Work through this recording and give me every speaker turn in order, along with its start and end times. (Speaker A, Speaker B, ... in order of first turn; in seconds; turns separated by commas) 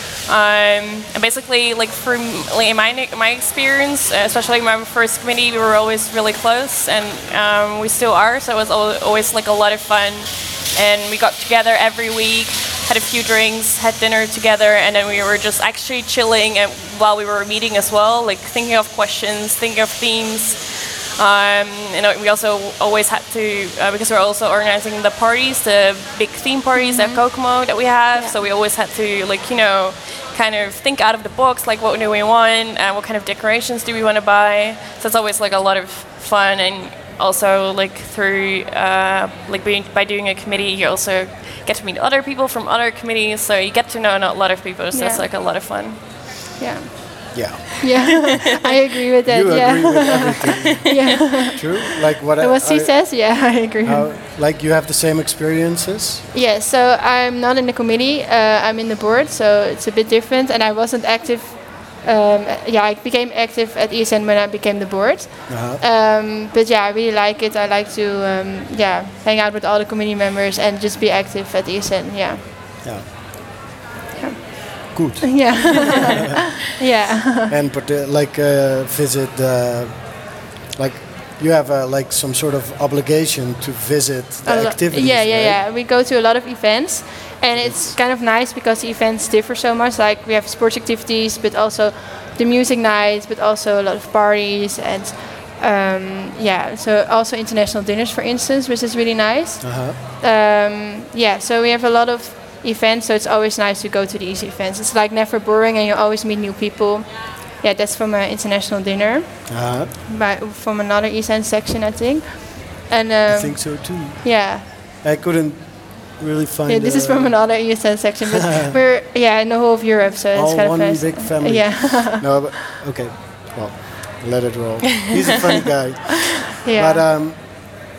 Speaker A: 0.3-46.0, Speaker B: 26.7-27.2, Speaker B: 28.1-28.4, Speaker B: 44.9-45.3, Speaker B: 46.6-47.1, Speaker C: 47.3-48.5, Speaker B: 47.8-54.1, Speaker C: 49.2-56.2, Speaker A: 50.5-51.8, Speaker B: 56.3-72.4, Speaker C: 65.5-65.8, Speaker C: 72.8-73.1, Speaker B: 74.2-77.5, Speaker C: 74.9-76.4, Speaker C: 77.5-80.2, Speaker C: 80.8-85.6, Speaker B: 84.4-114.6, Speaker C: 87.5-88.0, Speaker C: 99.6-100.0, Speaker C: 109.5-109.9, Speaker C: 113.3-117.9, Speaker B: 116.7-122.5, Speaker C: 120.3-127.4, Speaker B: 126.6-127.0